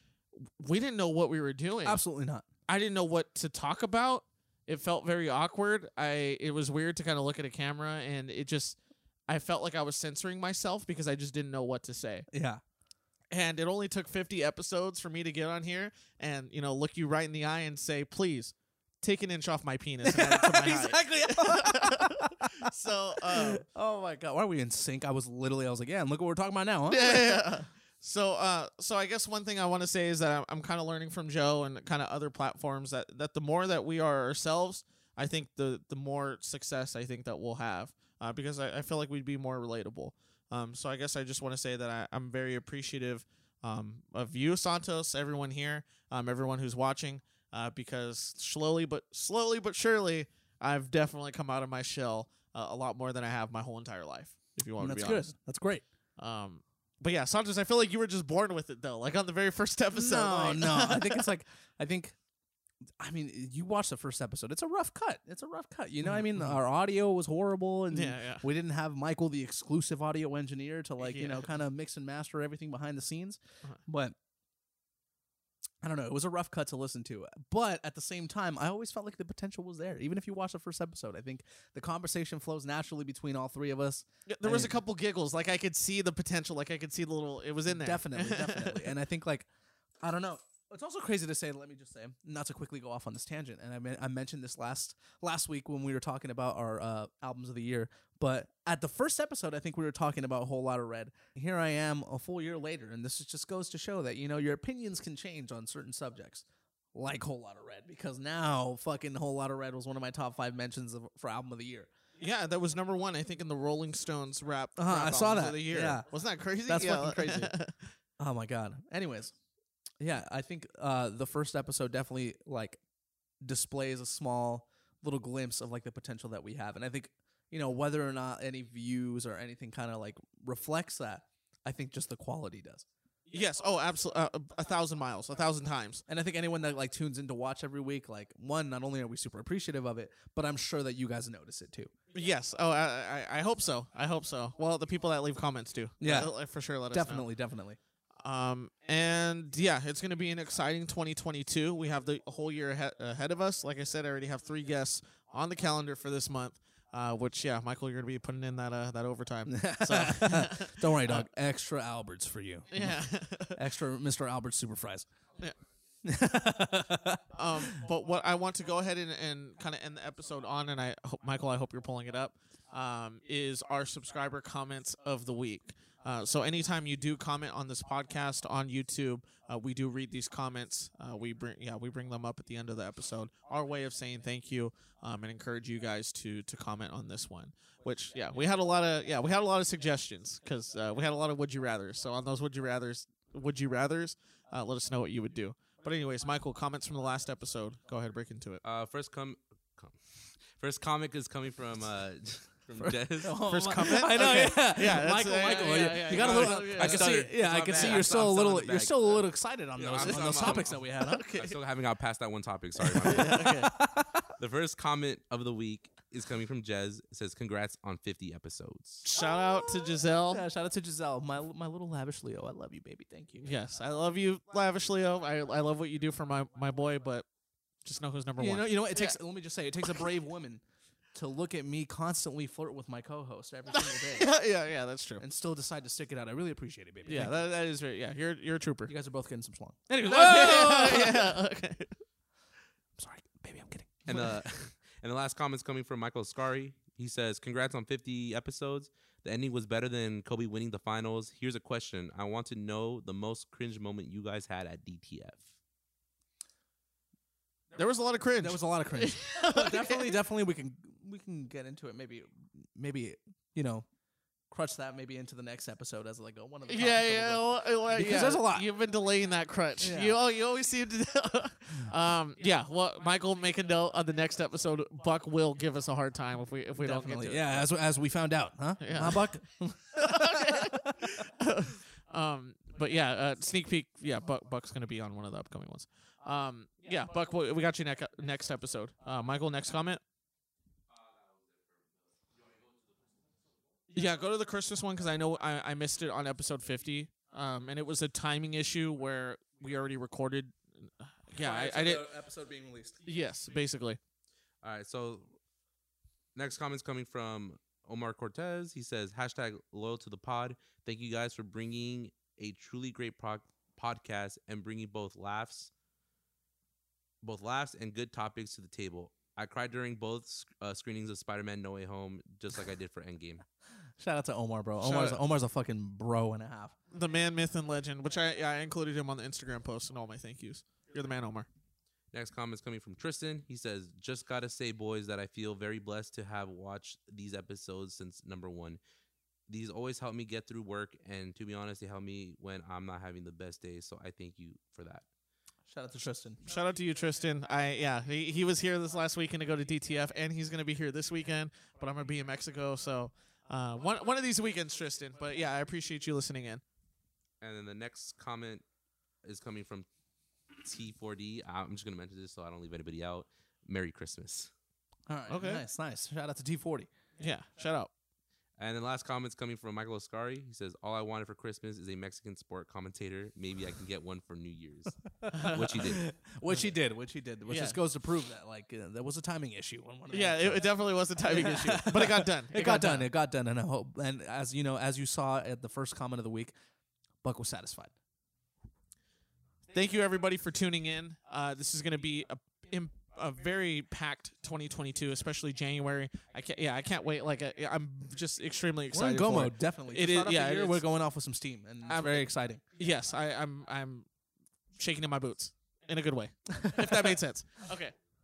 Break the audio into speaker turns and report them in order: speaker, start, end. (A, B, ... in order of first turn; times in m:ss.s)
0:00.4-0:02.0 A
0:01.8-0:02.4 B
0:02.7-0:08.8 A
0:09.3-0:12.3 A
0:12.3-0:12.6 B
0:13.3-0:23.6 A
0:20.0-0:27.5 B
0:26.9-0:55.3 A
0:54.8-0:55.8 B
0:56.2-1:01.3 A
0:59.9-1:02.2 B
1:03.0-1:14.2 B
1:06.0-1:06.6 A
1:07.9-1:08.4 A
1:11.0-1:11.4 A
1:15.8-1:24.7 B
1:24.3-1:28.9 A
1:27.7-1:29.5 B
1:30.0-1:51.9 B
1:52.2-1:57.9 A
1:54.8-1:56.1 B
1:56.6-1:57.5 B
1:58.2-1:59.3 B
2:00.0-2:02.8 B
2:03.4-2:12.8 B
2:13.3-2:16.0 A
2:16.1-2:21.9 B
2:22.1-2:27.3 A
2:26.0-2:26.3 B
2:26.9-2:27.8 B
2:28.2-2:41.3 A
2:39.5-2:45.1 B
2:42.7-2:43.6 A
2:46.0-2:47.8 B
2:47.3-3:18.6 A
3:18.6-3:23.4 C
3:22.8-3:31.2 B
3:23.4-3:28.1 A
3:26.0-3:29.2 C
3:29.8-3:31.6 A
3:29.8-3:33.6 C
3:32.8-3:34.3 B
3:33.0-3:33.7 A
3:34.4-3:39.0 C
3:39.0-3:43.5 B
3:39.1-3:40.4 A
3:43.4-3:47.2 A
3:47.8-3:49.2 A
3:48.4-3:50.6 B
3:51.1-3:54.3 B
3:53.7-3:55.2 A
3:55.2-3:57.4 B
3:57.0-3:58.9 A
3:58.9-4:01.4 B
4:00.0-4:02.0 A
4:03.0-4:04.5 B
4:04.1-4:15.5 C
4:17.7-4:20.2 A
4:18.4-4:23.8 B
4:24.5-4:28.7 B
4:26.7-4:37.7 A
4:29.8-4:30.2 B
4:36.8-4:41.1 B
4:38.8-4:39.3 A
4:40.0-4:50.0 A
4:50.9-4:53.1 C
4:53.9-5:02.1 A
5:01.3-5:03.0 B
5:03.0-5:04.0 A
5:04.6-5:05.3 C
5:06.3-5:15.7 C
5:17.2-5:23.4 C
5:24.0-5:26.8 B
5:24.8-5:25.2 A
5:26.9-5:31.5 A
5:32.1-5:38.8 C
5:39.5-5:45.0 C
5:45.7-5:46.4 B
5:46.4-5:56.6 A
5:57.4-5:58.6 C
5:59.2-5:59.9 C
6:00.6-6:04.5 C
6:05.1-6:06.9 B
6:05.3-6:05.6 A
6:07.2-6:07.9 A
6:08.6-6:16.0 C
6:15.2-6:26.5 B
6:15.3-6:15.9 A
6:17.5-6:17.8 A
6:20.1-6:23.1 A
6:27.2-6:27.9 B
6:29.7-6:40.8 A
6:38.9-6:42.6 B
6:41.8-6:44.1 A
6:44.8-6:47.9 A
6:46.6-6:47.0 B